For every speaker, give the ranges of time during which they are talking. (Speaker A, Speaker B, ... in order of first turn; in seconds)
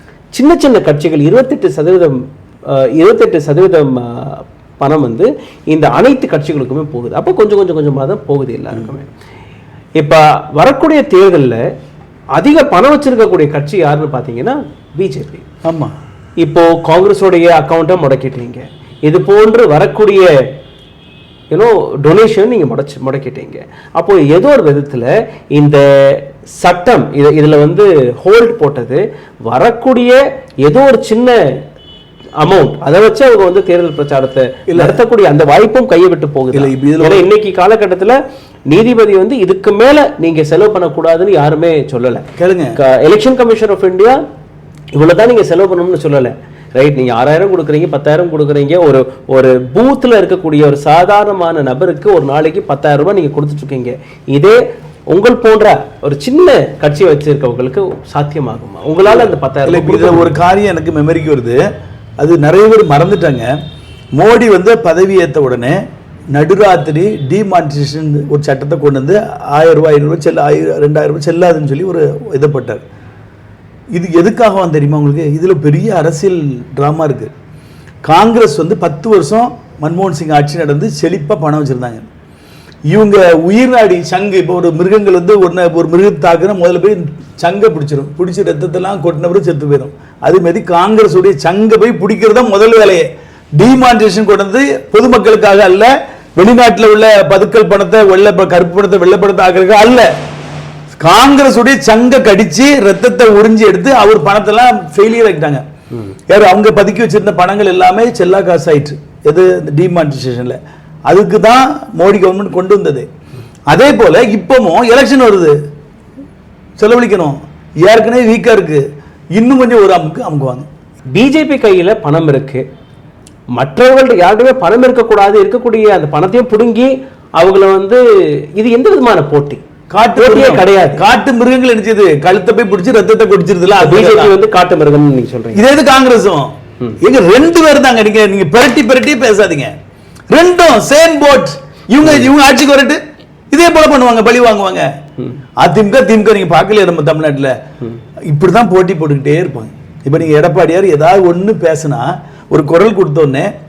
Speaker A: 0.3-9.1, 10.0-11.6, 12.3-15.4, 16.4-20.3, 21.5-31.3, 32.4-38.1, 38.7-44.2, 44.9-54.6, 55.1-60.3, 121.1-122.6, 123.5-128.0, 128.6-129.6, 130.2-131.0, 133.8-135.7
Speaker B: 15.6-15.9, 34.7-35.0, 36.5-37.3, 42.4-42.8, 59.1-61.6, 62.2-63.5, 64.2-65.8, 66.3-72.8, 73.9-77.3, 78.0-82.0, 82.9-100.1, 101.0-105.6, 106.3-110.6, 111.1-113.0, 113.7-115.5, 116.8-118.8, 119.3-120.7, 129.9-134.3, 135.5-139.7, 140.3-144.9, 145.6-147.5, 148.3-153.5